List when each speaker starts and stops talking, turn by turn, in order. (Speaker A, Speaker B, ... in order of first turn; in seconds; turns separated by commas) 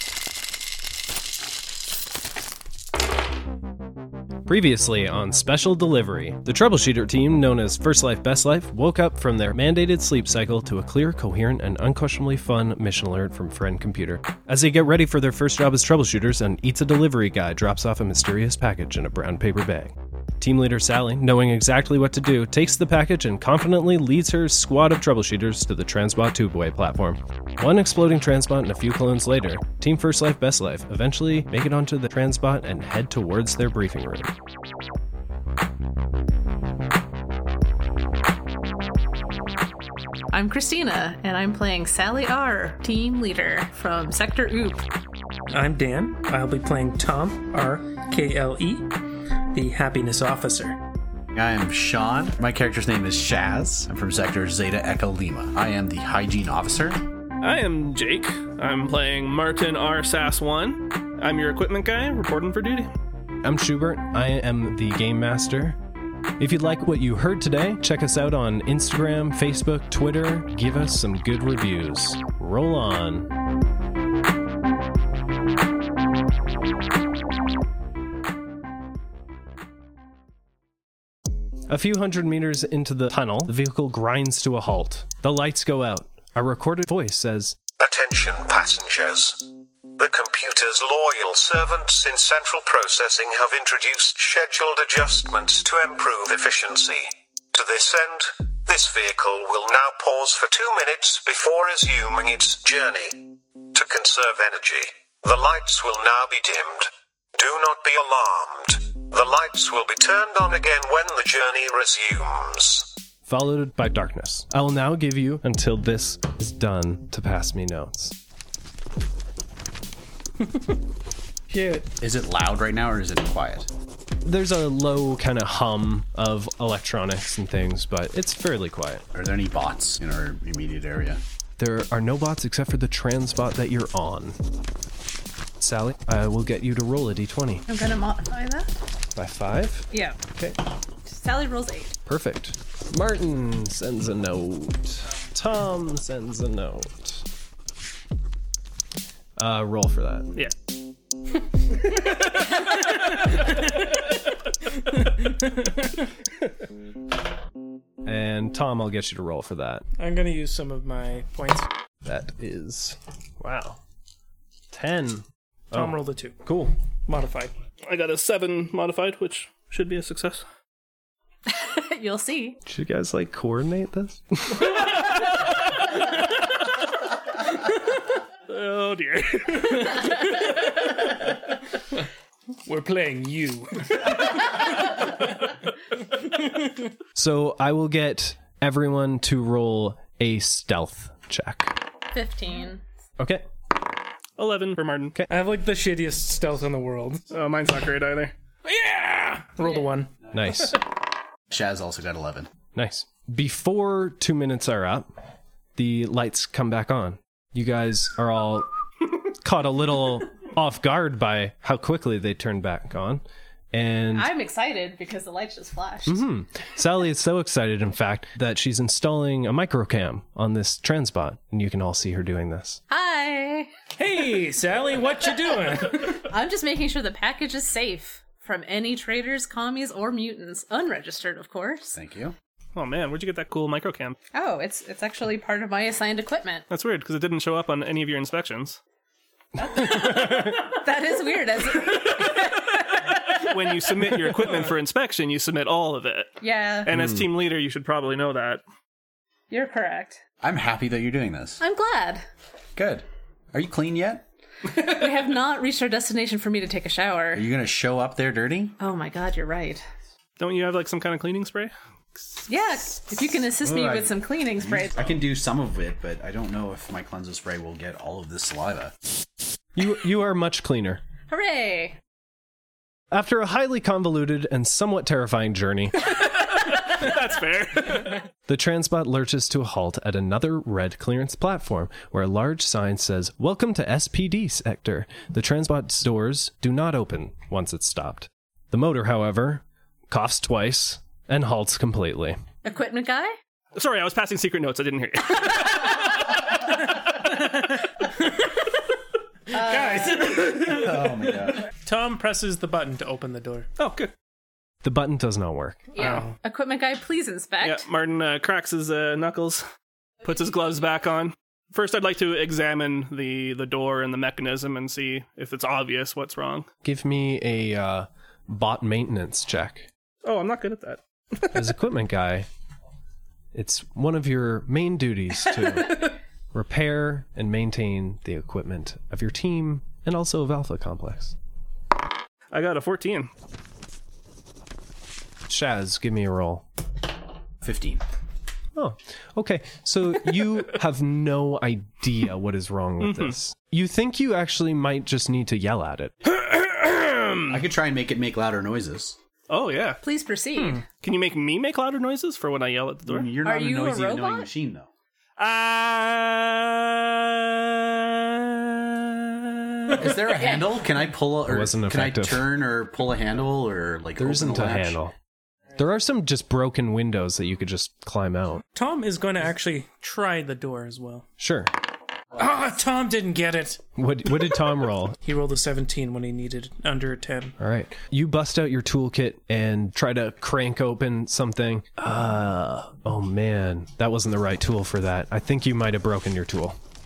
Speaker A: 4.5-34.3, Speaker B: 40.3-44.9, Speaker C: 45.5-49.0, Speaker C: 49.5-50.8, Speaker D: 51.3-57.0, Speaker E: 57.4-62.9, Speaker A: 63.4-65.8, Speaker A: 66.4-73.3, Speaker A: 81.7-87.6, Speaker F: 87.8-113.0, Speaker A: 113.3-118.2, Speaker D: 121.9-123.7, Speaker A: 124.2-129.0, Speaker D: 129.1-131.2, Speaker A: 131.6-134.4, Speaker A: 135.6-137.7, Speaker B: 137.7-138.7, Speaker A: 139.2-140.6, Speaker B: 139.9-140.2, Speaker B: 141.1-141.9, Speaker A: 142.1-147.2, Speaker A: 149.4-150.3, Speaker E: 151.9-153.5, Speaker C: 155.0-156.0, Speaker A: 158.0-159.8, Speaker C: 160.0-161.7, Speaker A: 162.0-163.8, Speaker A: 164.7-166.7, Speaker C: 165.7-166.4, Speaker C: 167.1-167.5, Speaker E: 167.9-170.4, Speaker B: 171.5-172.6, Speaker A: 172.7-174.8, Speaker E: 178.5-180.2, Speaker C: 179.7-180.0, Speaker C: 182.7-185.2, Speaker A: 187.2-191.8, Speaker B: 192.1-192.8, Speaker A: 193.2-193.5, Speaker E: 194.4-195.2, Speaker C: 195.3-197.2, Speaker E: 197.3-198.3, Speaker C: 198.7-200.1, Speaker A: 200.3-200.8, Speaker D: 201.5-202.5, Speaker A: 202.8-205.1, Speaker A: 205.8-208.7, Speaker A: 209.2-214.3, Speaker B: 214.1-216.2, Speaker A: 216.1-222.8, Speaker B: 222.9-223.7, Speaker C: 224.0-226.2, Speaker B: 226.1-232.0, Speaker D: 231.9-232.3, Speaker E: 232.8-234.2, Speaker B: 234.3-236.7, Speaker E: 236.7-238.8, Speaker B: 239.6-243.5, Speaker E: 243.3-248.6, Speaker B: 246.4-246.9, Speaker A: 246.9-247.2, Speaker B: 249.5-250.2, Speaker D: 250.4-251.6, Speaker B: 251.6-252.3, Speaker D: 252.8-254.2, Speaker B: 254.7-257.5, Speaker D: 257.3-258.8, Speaker B: 258.8-259.9, Speaker E: 260.4-261.7, Speaker B: 262.5-265.2, Speaker D: 263.6-269.0, Speaker A: 269.8-271.0, Speaker B: 271.3-272.0, Speaker A: 273.1-276.1, Speaker E: 276.2-278.3, Speaker A: 278.5-292.4, Speaker B: 292.6-293.4, Speaker E: 293.8-296.1, Speaker B: 299.5-300.5, Speaker C: 299.5-301.1, Speaker D: 300.1-301.7, Speaker C: 301.7-303.7, Speaker E: 303.8-304.1, Speaker A: 304.8-305.9, Speaker B: 305.9-307.9, Speaker C: 306.0-306.3, Speaker E: 307.6-309.6, Speaker E: 310.2-316.7, Speaker A: 316.8-319.9, Speaker E: 320.2-321.6, Speaker A: 321.5-322.5, Speaker A: 323.5-331.4, Speaker E: 332.5-333.3, Speaker A: 335.5-336.7, Speaker D: 337.6-338.0, Speaker A: 338.8-346.1, Speaker E: 343.0-343.3, Speaker E: 346.2-347.6, Speaker D: 347.5-349.2, Speaker E: 349.5-350.0, Speaker B: 350.0-350.8, Speaker C: 350.6-350.8, Speaker E: 351.0-353.3, Speaker D: 353.1-354.9, Speaker B: 353.4-354.5, Speaker E: 355.4-360.2, Speaker D: 359.9-365.0, Speaker B: 360.2-360.8, Speaker A: 361.5-362.5, Speaker A: 364.2-365.1, Speaker A: 365.8-368.6, Speaker C: 368.8-371.3, Speaker A: 371.4-371.7, Speaker C: 372.4-373.8, Speaker A: 374.0-375.2, Speaker C: 375.2-377.6, Speaker A: 377.6-386.8